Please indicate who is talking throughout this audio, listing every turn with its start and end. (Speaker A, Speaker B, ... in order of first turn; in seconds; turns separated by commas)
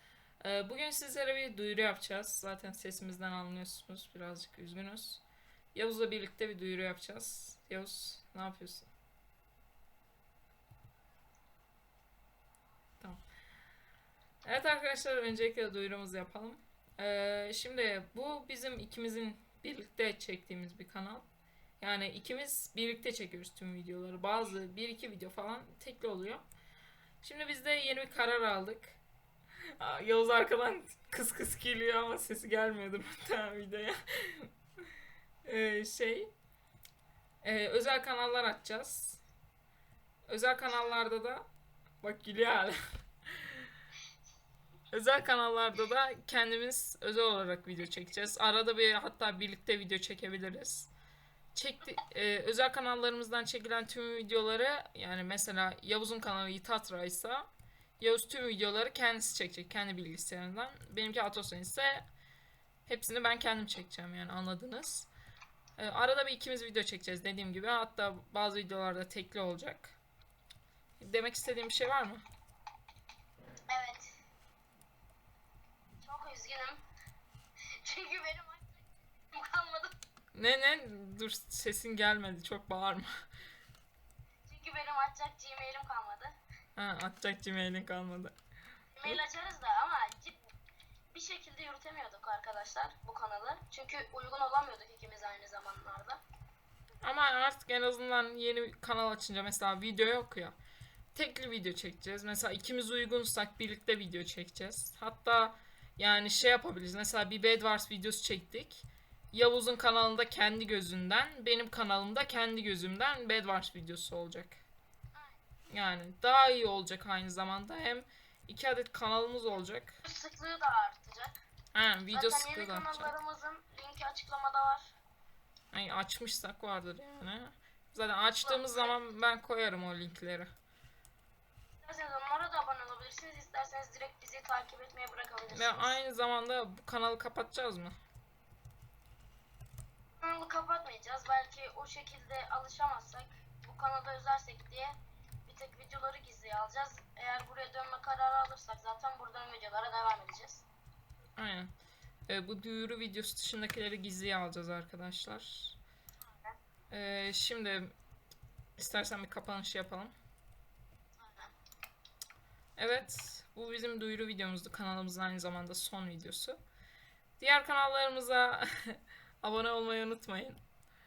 Speaker A: 0.4-5.2, Speaker A: 5.7-8.9, Speaker A: 14.4-21.3, Speaker A: 21.8-26.4, Speaker A: 27.2-29.0, Speaker A: 29.8-34.5, Speaker A: 35.5-36.3, Speaker A: 37.4-39.2, Speaker A: 40.3-41.5, Speaker A: 42.0-42.8, Speaker A: 43.4-43.7, Speaker A: 44.9-50.9, Speaker A: 51.5-57.5, Speaker A: 58.0-62.1, Speaker A: 62.9-65.1, Speaker A: 65.8-70.0, Speaker A: 71.0-72.2, Speaker B: 73.7-74.1, Speaker B: 76.0-76.8, Speaker B: 77.8-80.0, Speaker A: 80.3-83.1, Speaker B: 84.5-86.3, Speaker A: 86.8-88.3, Speaker B: 89.0-90.4, Speaker B: 91.1-96.2, Speaker A: 97.0-100.6, Speaker A: 101.1-114.6, Speaker B: 115.1-115.4, Speaker A: 115.7-120.0, Speaker B: 120.0-121.4, Speaker A: 121.7-123.1, Speaker B: 122.1-124.9, Speaker A: 125.7-130.5, Speaker B: 128.4-128.9, Speaker B: 131.8-136.0, Speaker A: 135.5-138.0, Speaker B: 140.2-144.9, Speaker B: 145.5-150.7, Speaker A: 151.4-151.7, Speaker A: 152.3-155.8, Speaker A: 156.9-157.9, Speaker A: 158.8-160.1, Speaker B: 161.2-161.5, Speaker A: 162.8-166.6, Speaker A: 167.4-170.6